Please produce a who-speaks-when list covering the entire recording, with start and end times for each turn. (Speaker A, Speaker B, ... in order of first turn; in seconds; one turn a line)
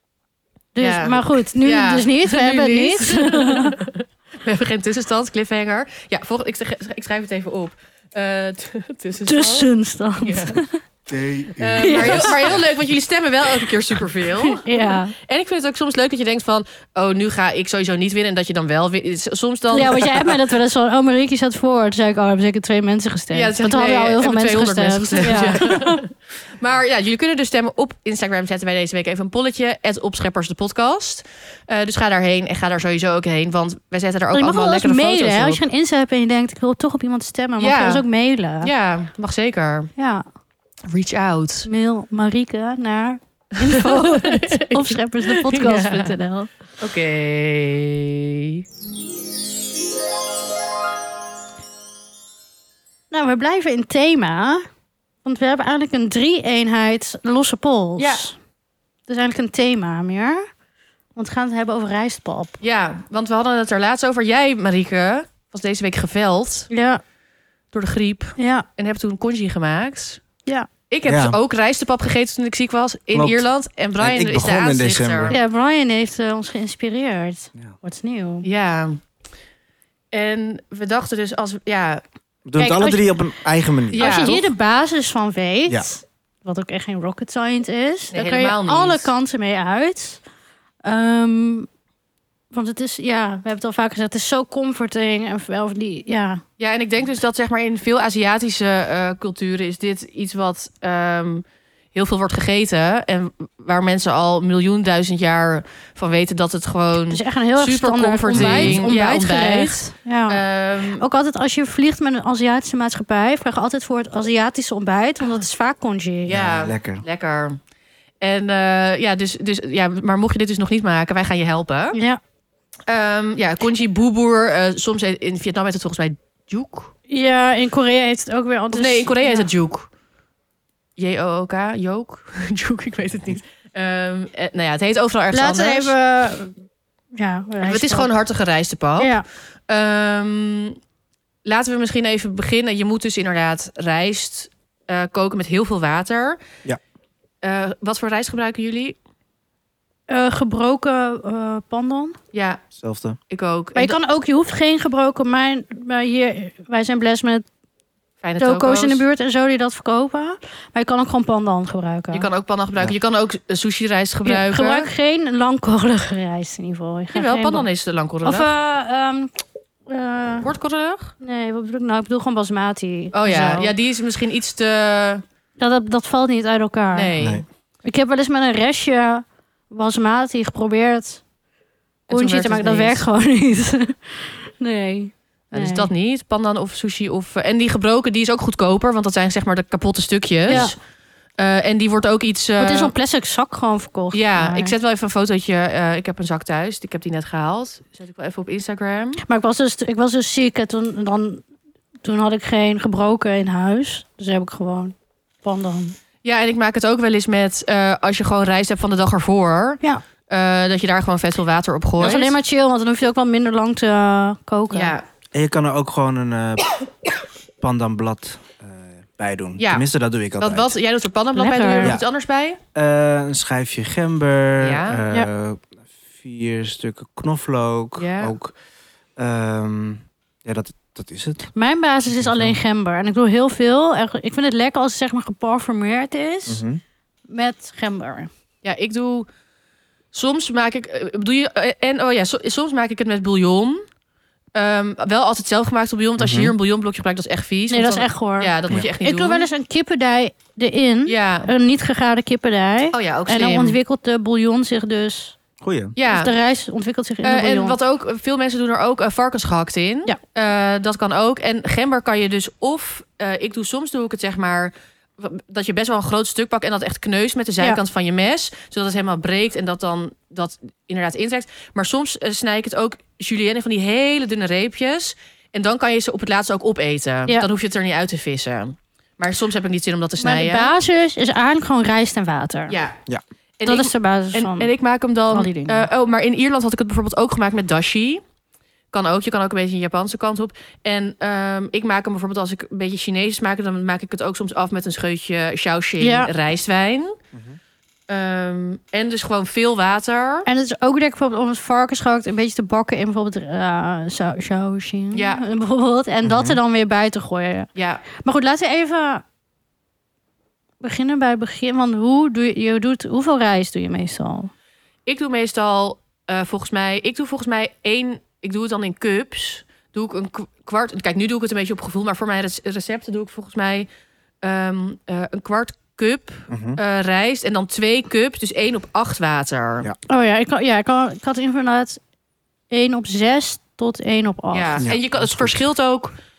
Speaker A: 0.8-3.8
Speaker B: 0.8-9.7
Speaker A: 9.2-10.8
Speaker B: 10.2-10.6
Speaker C: 11.1-12.6
Speaker B: 11.6-20.3
Speaker A: 11.8-12.6
Speaker A: 14.4-15.1
Speaker A: 19.7-26.0
Speaker B: 23.3-35.6
Speaker A: 34.3-38.7
Speaker B: 37.6-38.0
Speaker B: 38.6-39.9
Speaker A: 40.0-40.2
Speaker B: 40.9-41.7
Speaker A: 41.7-46.5
Speaker B: 43.6-46.1
Speaker B: 46.8-48.6
Speaker A: 53.1-54.6
Speaker A: 55.2-58.4
Speaker B: 58.0-58.2
Speaker A: 59.1-60.4
Speaker A: 61.1-62.6
Speaker B: 62.6-66.7
Speaker A: 66.7-67.0
Speaker B: 67.7-70.2
Speaker A: 68.4-68.7
Speaker B: 70.9-75.4
Speaker C: 71.1-71.4
Speaker C: 73.1-73.4
Speaker C: 74.0-75.4
Speaker A: 75.3-78.5
Speaker B: 78.4-79.0
Speaker B: 80.1-82.0
Speaker C: 82.5-84.4
Speaker A: 82.6-83.1
Speaker B: 83.9-84.4
Speaker A: 84.0-90.2
Speaker B: 88.1-89.1
Speaker A: 90.8-91.7
Speaker A: 92.5-96.4
Speaker B: 96.6-111.0
Speaker A: 107.1-110.4
Speaker C: 108.3-108.9
Speaker A: 111.0-116.4
Speaker C: 116.3-117.0
Speaker B: 116.3-117.6
Speaker B: 118.2-122.0
Speaker A: 121.9-122.2
Speaker B: 122.9-126.9
Speaker A: 127.1-129.5
Speaker B: 128.7-129.9
Speaker B: 131.0-135.9
Speaker A: 135.3-136.6
Speaker A: 137.2-138.1
Speaker B: 137.6-139.2
Speaker A: 139.0-139.2
Speaker B: 139.7-140.8
Speaker B: 141.4-146.4
Speaker B: 147.4-149.0
Speaker A: 150.1-152.2
Speaker B: 152.3-152.6
Speaker C: 152.8-153.2
Speaker B: 153.3-154.0
Speaker A: 153.8-157.4
Speaker B: 158.2-159.0
Speaker A: 158.4-162.3
Speaker B: 162.1-164.9
Speaker A: 164.2-167.7
Speaker B: 167.1-168.5
Speaker A: 168.2-169.3
Speaker A: 169.9-170.5
Speaker B: 170.4-171.2
Speaker A: 171.2-173.7
Speaker B: 173.1-175.2
Speaker A: 175.6-177.2
Speaker B: 176.9-177.4
Speaker C: 177.2-177.4
Speaker A: 177.8-181.2
Speaker A: 182.1-185.9
Speaker B: 182.1-183.0
Speaker B: 185.5-190.8
Speaker A: 190.5-190.8
Speaker B: 191.4-192.9
Speaker A: 192.6-194.7
Speaker B: 194.1-199.2
Speaker A: 199.2-201.4
Speaker A: 202.0-206.0
Speaker B: 206.2-212.3
Speaker A: 212.0-214.9
Speaker B: 214.7-215.1
Speaker C: 215.3-216.7
Speaker C: 217.6-220.8
Speaker B: 219.6-219.8
Speaker B: 220.4-222.6
Speaker A: 221.3-222.0
Speaker C: 222.8-228.5
Speaker B: 224.6-225.0
Speaker B: 228.0-228.3
Speaker C: 229.2-231.5
Speaker A: 231.6-236.6
Speaker C: 232.1-232.6
Speaker C: 236.5-236.8
Speaker A: 237.3-238.3
Speaker B: 238.6-239.3
Speaker B: 240.1-243.8
Speaker B: 244.6-249.5
Speaker C: 246.2-246.5
Speaker A: 247.7-255.4
Speaker B: 251.1-251.5
Speaker B: 252.9-253.8
Speaker C: 255.6-255.9
Speaker B: 256.0-256.3
Speaker A: 256.1-257.8
Speaker B: 257.2-280.7
Speaker A: 280.2-282.8
Speaker B: 282.7-283.0
Speaker B: 283.6-288.2
Speaker A: 283.6-284.7
Speaker A: 285.3-285.9
Speaker B: 288.9-297.2
Speaker A: 296.0-296.3
Speaker C: 297.3-297.6
Speaker B: 298.1-300.5
Speaker A: 300.5-309.2
Speaker B: 305.1-305.4
Speaker C: 306.2-306.6
Speaker B: 307.8-308.1
Speaker A: 310.8-314.5
Speaker B: 315.1-323.9
Speaker B: 324.4-329.9
Speaker C: 326.5-326.8
Speaker A: 330.1-332.0
Speaker A: 332.7-334.9
Speaker B: 334.5-336.1
Speaker C: 334.8-335.6